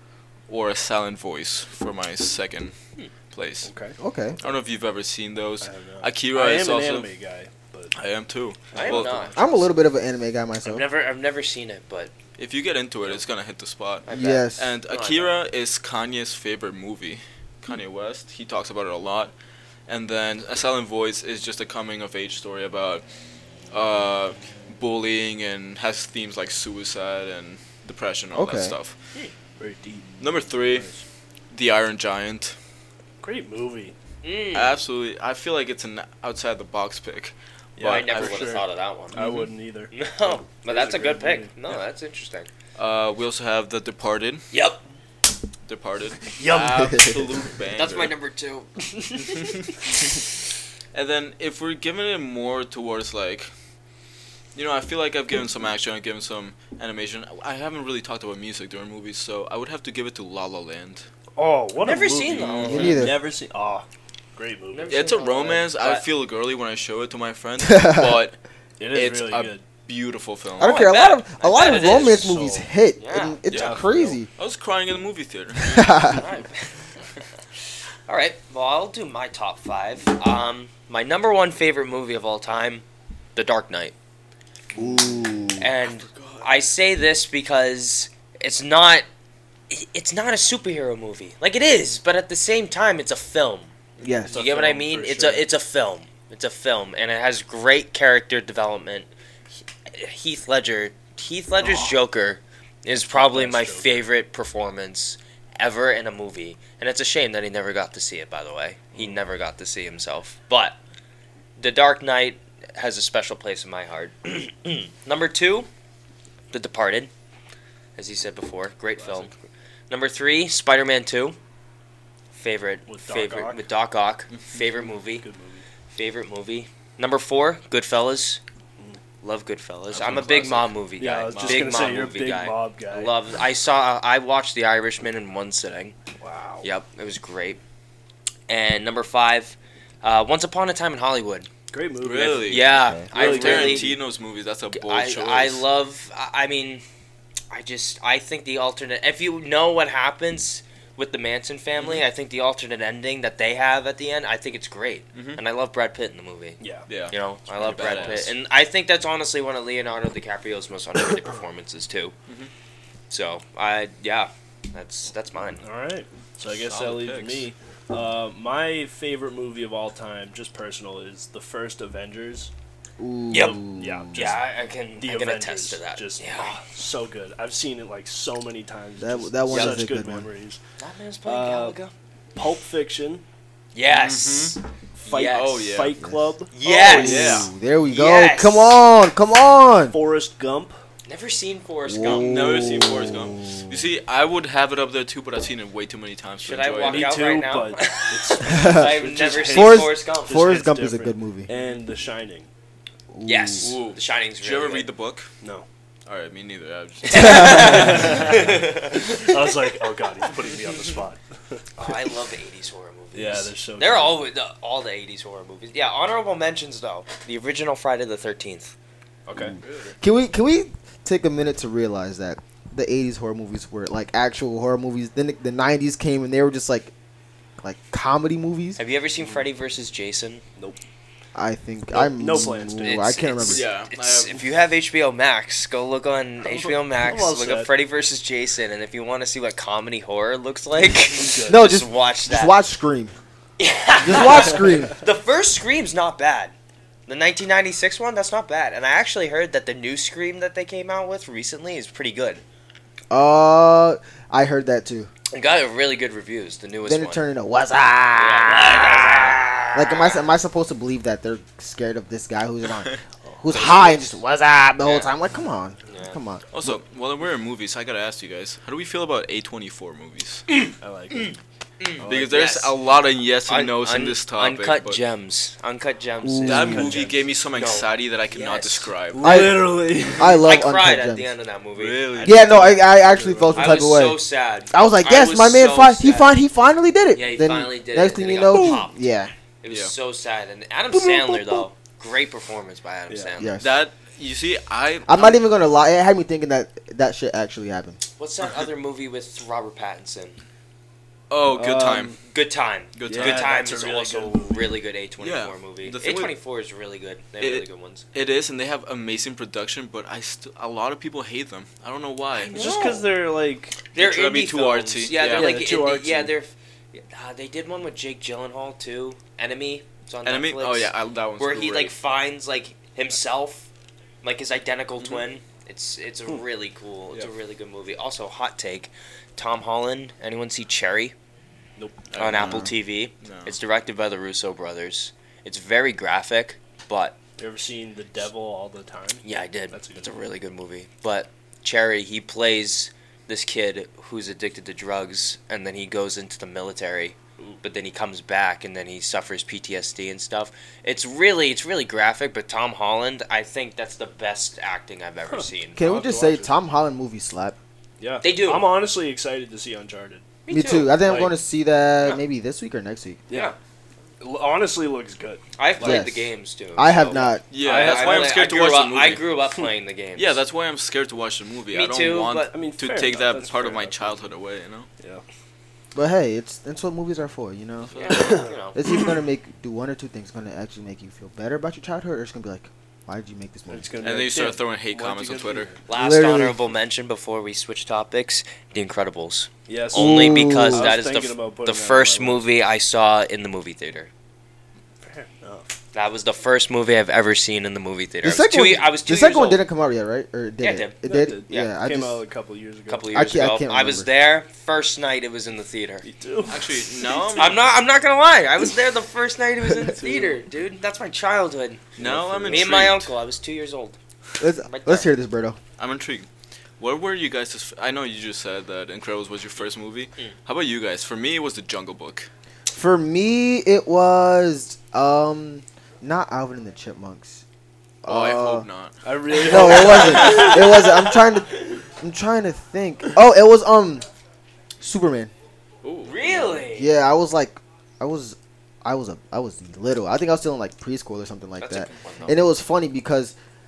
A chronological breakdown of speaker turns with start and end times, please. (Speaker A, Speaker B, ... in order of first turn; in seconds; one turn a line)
Speaker A: 0.5-2.8
Speaker A: 3.3-3.7
Speaker B: 3.6-4.0
Speaker C: 4.0-4.4
Speaker A: 4.4-7.1
Speaker B: 5.6-7.9
Speaker A: 7.9-9.4
Speaker B: 8.7-9.4
Speaker D: 8.7-9.5
Speaker C: 9.4-10.8
Speaker D: 10.6-12.1
Speaker A: 12.4-19.3
Speaker D: 14.1-15.3
Speaker C: 14.1-14.7
Speaker A: 19.9-23.0
Speaker A: 23.7-29.0
Speaker C: 28.3-28.8
Speaker B: 29.6-30.1
Speaker A: 30.2-30.9
Speaker B: 30.7-31.0
Speaker A: 31.5-32.6
Speaker B: 33.2-34.0
Speaker D: 34.2-34.8
Speaker A: 34.5-38.6
Speaker B: 37.8-41.6
Speaker D: 37.9-39.2
Speaker A: 39.1-39.5
Speaker D: 39.9-42.5
Speaker A: 42.8-44.5
Speaker D: 44.5-44.8
Speaker A: 45.7-48.1
Speaker B: 46.4-47.0
Speaker C: 46.8-47.3
Speaker D: 47.7-49.7
Speaker A: 49.3-49.9
Speaker A: 50.9-53.5
Speaker A: 54.5-61.1
Speaker B: 61.4-65.5
Speaker D: 61.8-63.0
Speaker A: 62.3-63.0
Speaker C: 62.6-63.2
Speaker D: 64.7-66.0
Speaker A: 64.9-68.4
Speaker C: 67.6-68.2
Speaker B: 68.8-69.6
Speaker A: 68.9-70.8
Speaker C: 70.6-74.3
Speaker D: 70.6-73.4
Speaker A: 73.5-73.8
Speaker B: 73.5-74.2
Speaker A: 74.4-76.0
Speaker C: 75.6-76.2
Speaker D: 76.1-77.1
Speaker D: 78.1-84.0
Speaker C: 84.8-85.7
Speaker D: 85.6-89.0
Speaker A: 86.1-86.5
Speaker D: 89.7-93.7
Speaker C: 94.0-94.4
Speaker B: 94.3-95.5
Speaker D: 94.3-99.1
Speaker D: 99.9-110.8
Speaker B: 103.1-104.0
Speaker D: 111.6-115.7
Speaker D: 116.5-117.1
Speaker D: 118.0-119.3
Speaker B: 119.0-119.4
Speaker D: 119.9-121.4
Speaker D: 122.3-125.2
Speaker B: 122.9-123.7
Speaker B: 124.8-125.7
Speaker D: 125.9-128.4
Speaker D: 129.2-136.0
Speaker A: 129.9-130.7
Speaker B: 131.0-133.2
Speaker A: 131.3-132.0
Speaker B: 136.2-136.7
Speaker D: 136.6-137.6
Speaker D: 138.5-141.5
Speaker B: 141.7-144.0
Speaker A: 142.0-145.7
Speaker D: 142.5-143.9
Speaker C: 142.8-143.1
Speaker D: 144.7-146.8
Speaker D: 147.5-162.1
Speaker A: 155.1-155.4
Speaker B: 156.6-156.9
Speaker A: 156.9-158.3
Speaker B: 157.6-158.2
Speaker D: 163.1-165.6
Speaker B: 165.6-172.5
Speaker A: 166.5-167.5
Speaker C: 173.0-174.3
Speaker D: 173.3-173.6
Speaker B: 173.4-180.6
Speaker D: 174.1-176.6
Speaker C: 179.0-180.3
Speaker D: 179.5-179.8
Speaker D: 180.8-181.9
Speaker B: 181.2-181.8
Speaker B: 182.3-183.2
Speaker D: 183.7-185.7
Speaker A: 183.9-184.6
Speaker B: 185.0-187.2
Speaker A: 185.2-186.0
Speaker D: 186.5-188.8
Speaker A: 186.8-187.5
Speaker C: 186.8-190.0
Speaker B: 189.9-190.8
Speaker D: 191.1-192.4
Speaker C: 191.9-193.7
Speaker A: 192.1-197.2
Speaker D: 196.4-200.5
Speaker B: 196.8-202.5
Speaker C: 198.5-198.9
Speaker C: 199.4-201.5
Speaker C: 203.1-203.8
Speaker D: 203.2-204.9
Speaker A: 203.6-205.3
Speaker A: 206.1-208.3
Speaker D: 207.1-209.7
Speaker C: 207.3-207.6
Speaker B: 207.6-211.9
Speaker D: 211.8-218.7
Speaker B: 213.1-214.2
Speaker B: 219.3-219.6
Speaker A: 219.6-219.9
Speaker C: 220.0-226.9
Speaker C: 227.6-228.8
Speaker D: 228.8-230.4
Speaker C: 231.3-233.7
Speaker B: 231.9-233.2
Speaker D: 232.8-242.6
Speaker A: 233.4-234.4
Speaker B: 236.5-237.7
Speaker B: 240.9-241.7
Speaker C: 241.5-243.1
Speaker D: 243.6-246.5
Speaker C: 244.0-245.0
Speaker D: 247.1-252.4
Speaker C: 253.1-255.1
Speaker D: 255.3-257.2
Speaker C: 256.9-266.8
Speaker D: 258.1-260.2
Speaker D: 263.5-264.2
Speaker D: 264.8-265.1
Speaker D: 265.9-266.2
Speaker A: 266.5-270.5
Speaker D: 270.5-272.8
Speaker B: 270.8-271.4
Speaker A: 272.0-275.0
Speaker B: 272.0-272.4
Speaker D: 273.5-278.9
Speaker C: 276.2-277.0
Speaker A: 276.4-279.6
Speaker B: 276.6-277.1
Speaker B: 279.1-280.5
Speaker C: 279.2-281.3
Speaker D: 280.4-282.2
Speaker A: 281.8-282.7
Speaker B: 282.2-283.9
Speaker C: 282.2-289.3
Speaker D: 283.6-286.4
Speaker D: 287.1-288.9
Speaker D: 289.6-293.6
Speaker C: 290.9-291.7
Speaker B: 293.1-293.4
Speaker C: 293.4-293.8
Speaker A: 293.6-295.4
Speaker C: 295.1-298.0
Speaker D: 298.2-300.4
Speaker A: 301.3-302.2
Speaker B: 301.5-302.2
Speaker D: 302.3-308.1
Speaker A: 302.9-303.6
Speaker B: 303.1-304.8
Speaker A: 305.2-306.3
Speaker A: 307.4-312.7
Speaker D: 312.4-313.1
Speaker B: 312.5-313.8
Speaker D: 313.9-323.7
Speaker A: 313.9-315.7
Speaker B: 315.2-316.3
Speaker A: 320.2-321.9
Speaker D: 324.2-331.1
Speaker B: 331.8-332.1
Speaker A: 332.1-333.6
Speaker D: 332.2-337.2
Speaker C: 332.4-332.7
Speaker B: 337.4-340.1
Speaker D: 339.2-355.8
Speaker B: 355.3-356.5
Speaker C: 355.8-357.6
Speaker B: 358.0-360.3
Speaker D: 358.2-358.7
Speaker D: 360.5-361.0
Speaker C: 360.5-363.2
Speaker B: 361.0-361.4
Speaker B: 363.3-363.6
Speaker D: 363.3-363.6
Speaker B: 364.2-366.0
Speaker D: 365.6-370.4
Speaker C: 365.8-367.4
Speaker B: 367.1-368.4
Speaker A: 367.5-369.2
Speaker A: 370.2-374.9
Speaker D: 371.7-372.5
Speaker B: 372.5-374.3
Speaker B: 375.0-375.2
Speaker C: 375.9-378.0
Speaker A: 377.9-378.5
Speaker D: 377.9-378.8
Speaker B: 378.1-378.5
Speaker C: 378.7-383.9
Speaker B: 383.7-385.8
Speaker A: 384.0-385.7
Speaker D: 385.9-394.1
Speaker C: 385.9-386.6
Speaker B: 389.7-392.4
Speaker C: 389.9-390.9
Speaker B: 395.0-395.7
Speaker D: 395.9-399.6
Speaker C: 398.2-402.2
Speaker D: 400.6-401.0
Speaker B: 401.1-403.2
Speaker D: 402.9-406.1
Speaker C: 403.1-404.1
Speaker B: 406.0-407.4
Speaker A: 406.5-407.6
Speaker D: 407.3-411.9
Speaker B: 410.0-410.3
Speaker B: 412.0-412.8
Speaker A: 412.0-413.1
Speaker D: 412.5-414.0
Speaker C: 414.4-415.6
Speaker D: 414.7-415.1
Speaker A: 415.8-416.3
Speaker A: 416.8-422.3
Speaker C: 422.7-427.4
Speaker C: 428.0-428.7
Speaker A: 428.1-430.5
Speaker B: 429.0-430.6
Speaker C: 429.4-434.1
Speaker D: 429.5-431.1
Speaker C: 434.8-435.3
Speaker A: 435.8-436.2
Speaker D: 436.1-436.9
Speaker C: 436.7-443.4
Speaker D: 441.6-442.4